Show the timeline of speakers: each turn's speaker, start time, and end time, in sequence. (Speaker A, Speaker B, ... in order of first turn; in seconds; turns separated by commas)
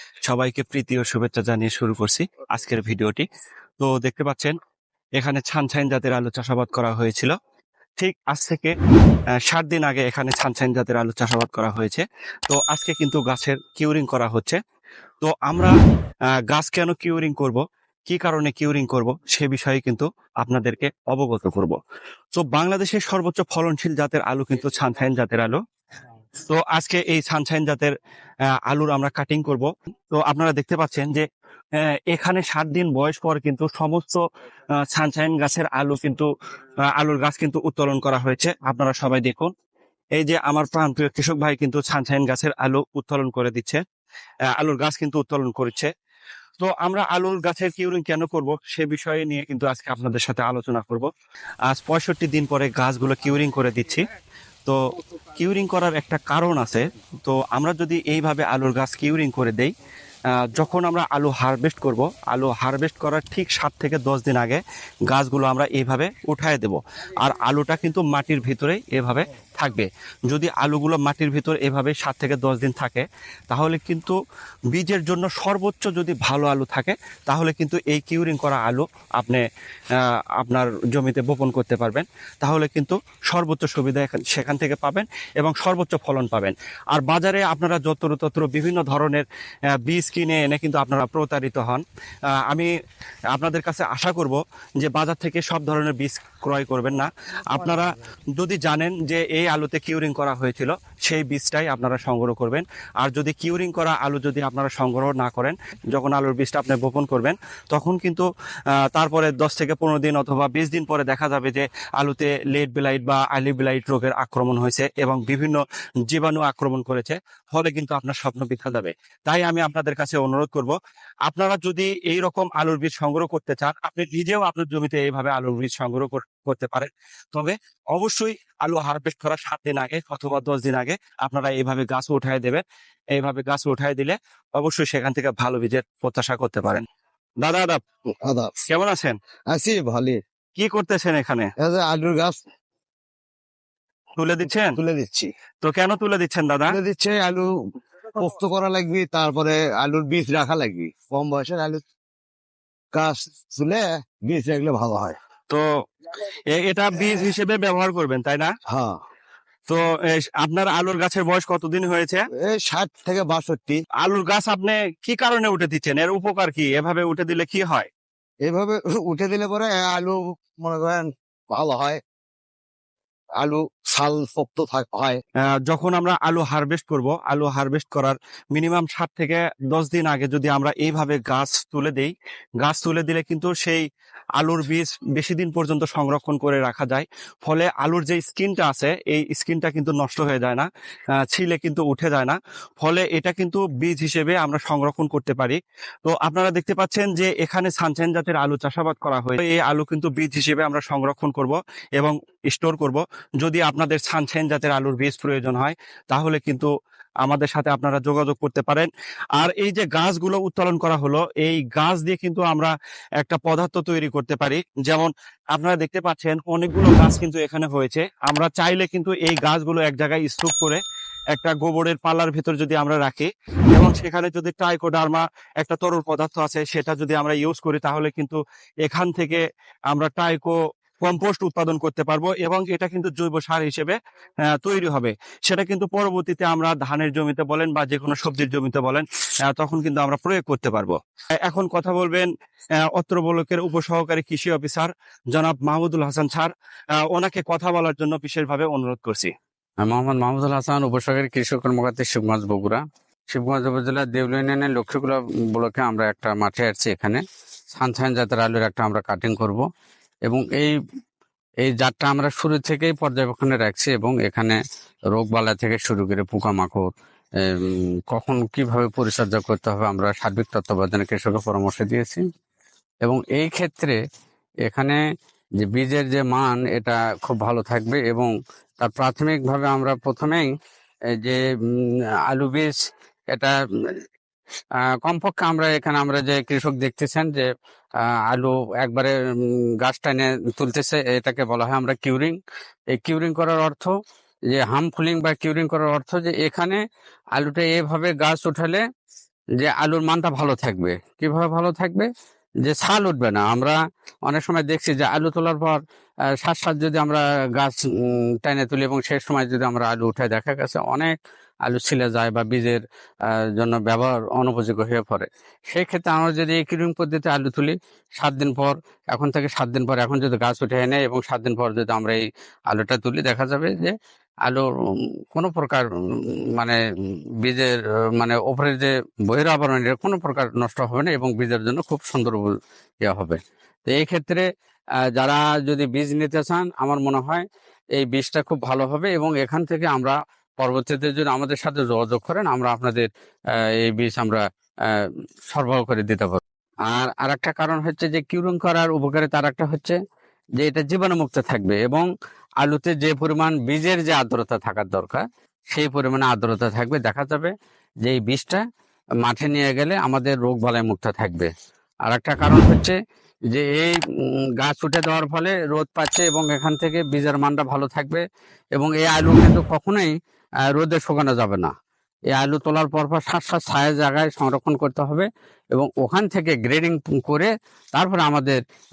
Speaker A: 0.3-3.3, Speaker A: 3.8-4.5, Speaker A: 5.2-7.4, Speaker A: 8.0-8.8, Speaker A: 9.4-14.6, Speaker A: 15.2-15.7, Speaker A: 16.5-21.8, Speaker A: 22.4-25.6, Speaker A: 26.4-27.9, Speaker A: 28.7-34.2, Speaker A: 34.8-36.3, Speaker A: 36.9-39.5, Speaker A: 40.2-43.8, Speaker A: 44.5-45.9, Speaker A: 46.6-51.1, Speaker A: 51.7-54.0, Speaker A: 55.4-59.7, Speaker A: 60.4-74.2, Speaker A: 74.7-79.4, Speaker A: 80.0-89.2, Speaker A: 89.8-91.8, Speaker A: 93.3-108.3, Speaker A: 108.8-132.6, Speaker A: 133.2-136.8, Speaker A: 137.4-137.8, Speaker B: 138.2-138.5, Speaker A: 138.7-139.2, Speaker B: 139.5-140.2, Speaker A: 140.6-141.5, Speaker B: 141.6-142.4, Speaker A: 144.2-144.8, Speaker B: 144.8-145.3, Speaker A: 145.6-146.8, Speaker B: 146.7-147.5, Speaker B: 148.2-151.8, Speaker B: 152.9-155.2, Speaker A: 156.5-158.5, Speaker B: 158.7-159.0, Speaker A: 159.7-162.2, Speaker B: 162.4-163.8, Speaker A: 164.0-167.9, Speaker B: 168.4-172.0, Speaker B: 173.4-175.2, Speaker A: 175.6-183.8, Speaker A: 184.4-190.7, Speaker A: 191.2-206.7, Speaker A: 207.2-220.8, Speaker A: 221.3-234.0, Speaker A: 234.5-242.3, Speaker A: 242.9-249.3, Speaker C: 249.8-257.2, Speaker C: 257.7-259.7, Speaker C: 260.3-260.8, Speaker C: 261.6-264.6, Speaker C: 265.1-266.9, Speaker C: 267.4-272.2, Speaker C: 273.0-274.0, Speaker C: 274.7-275.0, Speaker C: 275.6-280.5, Speaker C: 281.1-282.8, Speaker C: 283.3-284.0, Speaker C: 284.8-287.5, Speaker C: 288.0-292.4, Speaker C: 292.9-293.9, Speaker C: 294.5-296.8, Speaker C: 297.4-298.8, Speaker C: 299.6-302.1, Speaker C: 302.6-305.8, Speaker C: 306.4-311.1, Speaker C: 311.7-324.0, Speaker C: 325.3-326.8, Speaker C: 327.4-334.5, Speaker C: 335.1-337.4, Speaker C: 338.0-350.0, Speaker C: 350.6-352.1, Speaker C: 352.6-357.5, Speaker C: 358.1-358.6, Speaker C: 359.2-361.5, Speaker C: 362.1-363.0, Speaker C: 363.5-364.0, Speaker C: 364.6-368.2, Speaker C: 368.8-370.1, Speaker C: 370.7-371.7, Speaker C: 372.3-378.6